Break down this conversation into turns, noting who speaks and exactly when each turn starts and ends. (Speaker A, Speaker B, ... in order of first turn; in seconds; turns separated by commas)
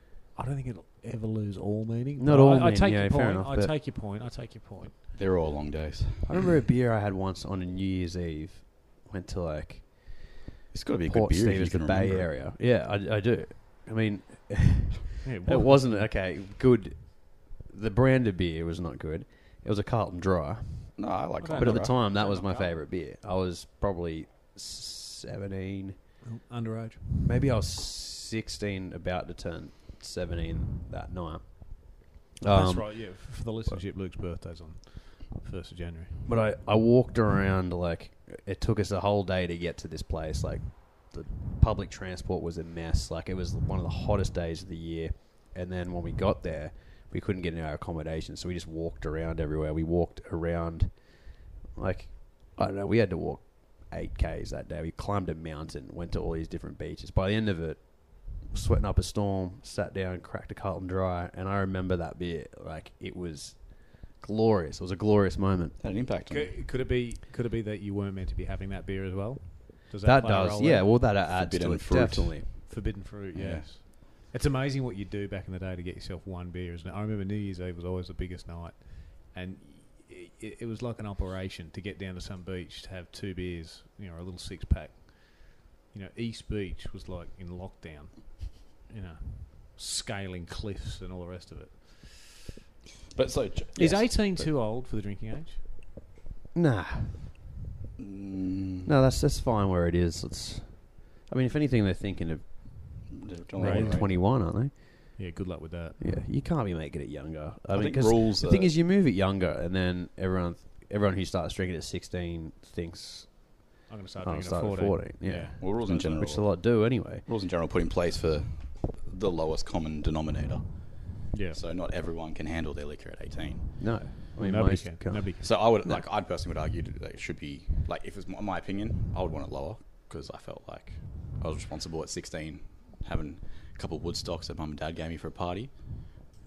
Speaker A: 0.3-5.0, Speaker B: 2.2-3.7, Speaker C: 5.1-6.4, Speaker B: 6.2-10.4, Speaker C: 10.7-12.3, Speaker B: 11.1-26.0, Speaker A: 15.2-16.1, Speaker C: 21.0-21.9, Speaker A: 21.4-22.7, Speaker A: 26.2-27.3, Speaker B: 27.2-33.5, Speaker A: 32.5-36.3, Speaker B: 36.2-65.8, Speaker C: 65.8-66.5, Speaker A: 66.3-70.9, Speaker B: 70.0-72.7, Speaker C: 71.2-72.7, Speaker A: 72.7-92.3, Speaker C: 73.3-73.7, Speaker C: 93.1-94.1, Speaker B: 93.8-94.5, Speaker A: 93.8-95.6, Speaker B: 96.5-97.3, Speaker C: 98.0-98.9, Speaker B: 98.8-105.2, Speaker C: 103.2-104.2, Speaker A: 103.6-104.0, Speaker A: 105.2-106.1, Speaker B: 106.0-117.2, Speaker C: 107.7-108.7, Speaker A: 113.9-116.2, Speaker C: 115.6-123.7, Speaker A: 121.3-121.6, Speaker B: 123.8-126.0, Speaker A: 124.4-125.5, Speaker C: 125.4-136.2